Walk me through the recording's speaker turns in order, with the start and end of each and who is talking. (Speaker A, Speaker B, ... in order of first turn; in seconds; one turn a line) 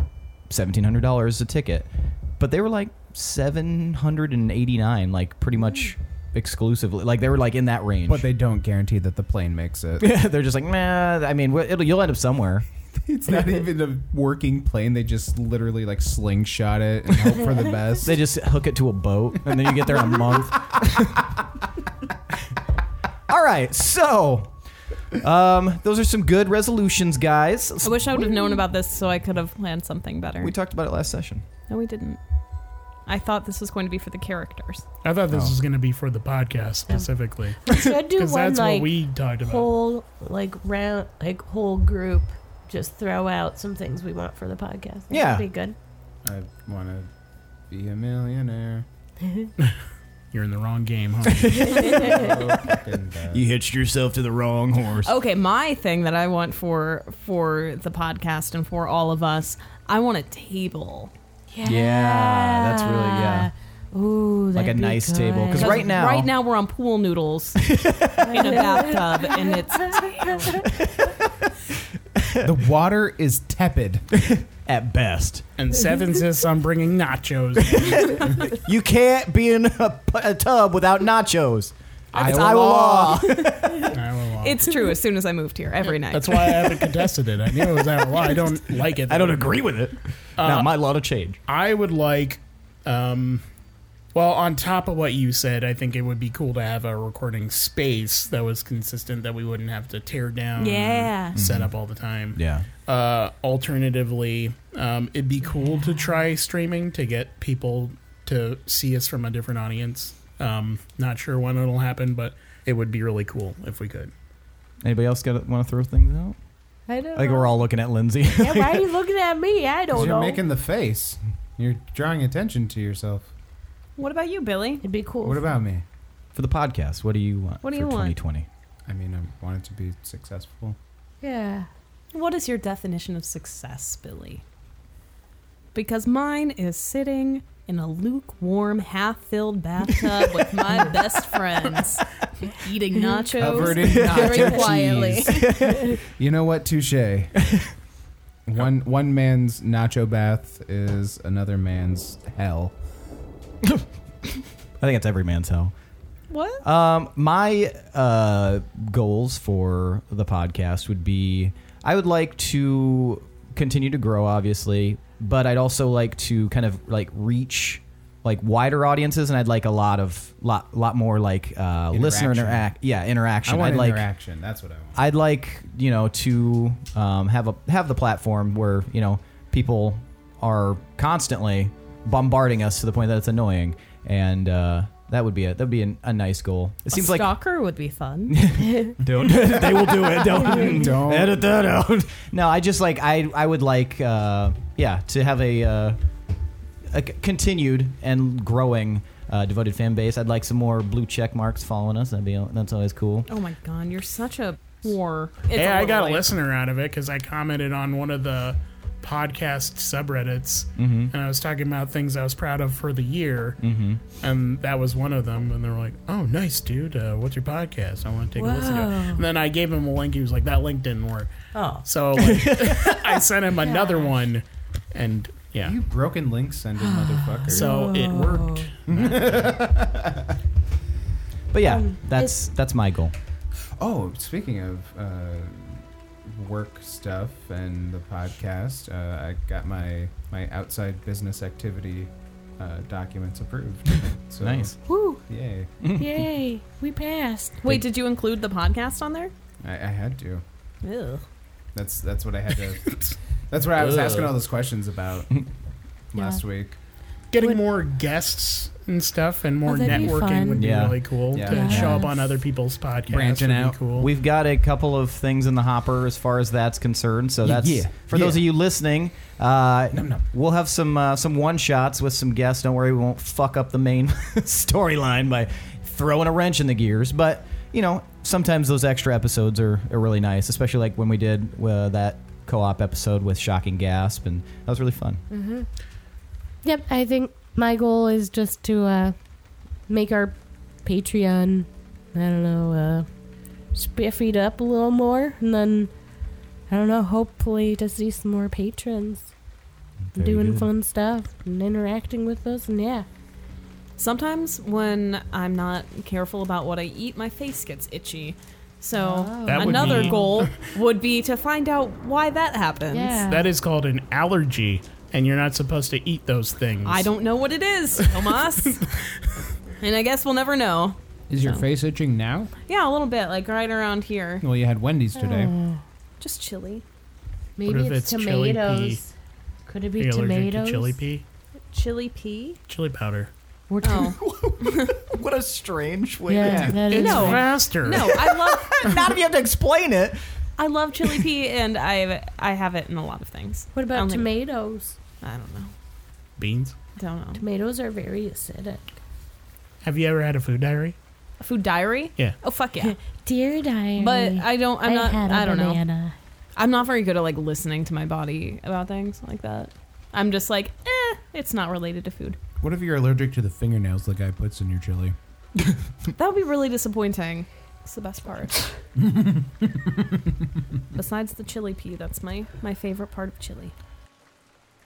Speaker A: 0.5-8.2
Speaker B: 8.1-10.1
Speaker A: 10.0-12.7
Speaker B: 12.9-18.2
Speaker A: 18.0-21.3
Speaker A: 23.3-24.5
Speaker A: 25.2-28.6
Speaker C: 27.8-30.5
Speaker A: 30.4-31.4
Speaker C: 31.7-32.2
Speaker C: 33.1-34.9
Speaker D: 35.0-39.7
Speaker E: 37.6-45.8
Speaker A: 45.1-45.5
Speaker B: 46.2-47.1
Speaker B: 47.7-48.9
Speaker D: 50.3-51.6
Speaker A: 51.2-52.3
Speaker E: 51.6-52.4
Speaker C: 51.8-52.0
Speaker B: 51.9-53.5
Speaker A: 53.3-55.1
Speaker C: 55.0-61.1
Speaker E: 61.5-65.9
Speaker A: 61.6-63.5
Speaker A: 64.6-66.3
Speaker C: 65.5-67.6
Speaker A: 67.6-68.4
Speaker E: 68.2-70.7
Speaker C: 68.3-70.5
Speaker A: 70.8-71.1
Speaker A: 72.2-72.5
Speaker B: 72.4-74.0
Speaker A: 74.1-75.5
Speaker D: 75.6-78.3
Speaker A: 77.7-84.0
Speaker B: 82.1-83.3
Speaker D: 83.9-84.7
Speaker C: 84.4-86.8
Speaker D: 86.0-89.6
Speaker A: 87.6-91.4
Speaker D: 90.4-90.8
Speaker D: 91.5-93.4
Speaker D: 94.1-114.1
Speaker C: 100.6-101.4
Speaker B: 101.4-101.7
Speaker A: 102.3-102.7
Speaker A: 114.8-116.3
Speaker E: 116.9-117.6
Speaker A: 117.1-118.9
Speaker E: 118.4-120.4
Speaker B: 119.9-123.3
Speaker C: 124.0-124.8
Speaker E: 124.8-125.5
Speaker B: 125.2-125.8
Speaker A: 126.3-128.5
Speaker C: 127.6-128.2
Speaker B: 128.9-130.8
Speaker E: 131.2-131.7
Speaker C: 132.1-134.4
Speaker C: 135.7-145.5
Speaker B: 143.4-145.5
Speaker A: 143.8-144.3
Speaker E: 144.0-144.5
Speaker A: 145.2-145.9
Speaker B: 146.1-147.4
Speaker B: 148.5-152.8
Speaker A: 154.8-155.7
Speaker C: 156.3-156.6
Speaker A: 156.6-174.1
Speaker B: 171.9-172.7
Speaker B: 173.4-175.0
Speaker A: 174.9-187.3
Speaker C: 186.9-188.3
Speaker A: 188.3-196.0
Speaker B: 190.4-191.4
Speaker A: 196.9-203.3
Speaker C: 203.3-206.3
Speaker D: 205.5-213.6
Speaker A: 210.8-211.1
Speaker A: 213.6-214.0
Speaker D: 214.1-221.3
Speaker E: 218.4-219.2
Speaker E: 221.5-221.9
Speaker D: 221.8-225.8
Speaker A: 222.2-223.2
Speaker E: 223.6-224.1
Speaker B: 225.6-227.8
Speaker E: 226.8-228.7
Speaker D: 227.5-228.7
Speaker B: 228.9-230.3
Speaker A: 231.5-233.1
Speaker E: 231.6-232.4
Speaker B: 233.8-244.8
Speaker A: 244.4-244.8
Speaker E: 244.9-245.2
Speaker B: 245.3-245.7
Speaker A: 245.8-246.1
Speaker E: 246.0-247.6
Speaker C: 247.6-249.3
Speaker B: 249.6-250.4
Speaker C: 250.8-251.2
Speaker B: 251.8-252.8
Speaker D: 252.9-253.1
Speaker B: 253.5-255.4
Speaker B: 256.1-256.8
Speaker E: 256.1-256.4
Speaker D: 257.3-264.1
Speaker E: 259.7-260.7
Speaker A: 260.5-261.0
Speaker B: 261.3-261.9
Speaker E: 261.4-262.2
Speaker A: 261.6-262.1
Speaker B: 263.1-263.8
Speaker A: 263.9-285.2
Speaker B: 267.4-268.5
Speaker B: 269.9-270.3
Speaker E: 285.3-285.7
Speaker E: 286.6-289.2
Speaker E: 289.9-293.1
Speaker E: 293.7-295.9
Speaker E: 296.7-299.3
Speaker E: 300.1-303.1
Speaker A: 300.2-300.6
Speaker C: 304.0-313.2
Speaker E: 308.9-310.4
Speaker D: 309.4-310.7
Speaker E: 312.9-313.5
Speaker D: 313.2-317.1
Speaker C: 316.9-318.9
Speaker D: 318.0-318.7
Speaker C: 319.8-321.6
Speaker B: 321.3-322.5
Speaker C: 322.7-324.4
Speaker B: 324.4-325.6
Speaker E: 325.1-325.8
Speaker C: 326.2-326.8
Speaker E: 327.6-329.1
Speaker D: 327.6-329.0
Speaker E: 329.7-331.0
Speaker D: 330.0-331.2
Speaker C: 331.7-332.6
Speaker D: 332.7-333.3
Speaker E: 333.7-334.2
Speaker C: 333.8-334.9
Speaker A: 333.9-337.3
Speaker E: 336.3-337.5
Speaker B: 336.4-336.8
Speaker D: 336.9-338.1
Speaker C: 336.9-338.7
Speaker A: 337.9-340.2
Speaker C: 340.6-344.3
Speaker E: 343.8-345.0
Speaker C: 345.2-345.7
Speaker D: 346.4-346.8
Speaker C: 347.0-347.4
Speaker E: 347.4-348.9
Speaker D: 349.8-351.0
Speaker C: 351.4-352.9
Speaker E: 352.8-356.2
Speaker C: 354.0-355.8
Speaker C: 356.6-362.4
Speaker B: 362.6-365.2
Speaker C: 366.1-368.7
Speaker B: 369.0-370.2
Speaker C: 370.9-373.7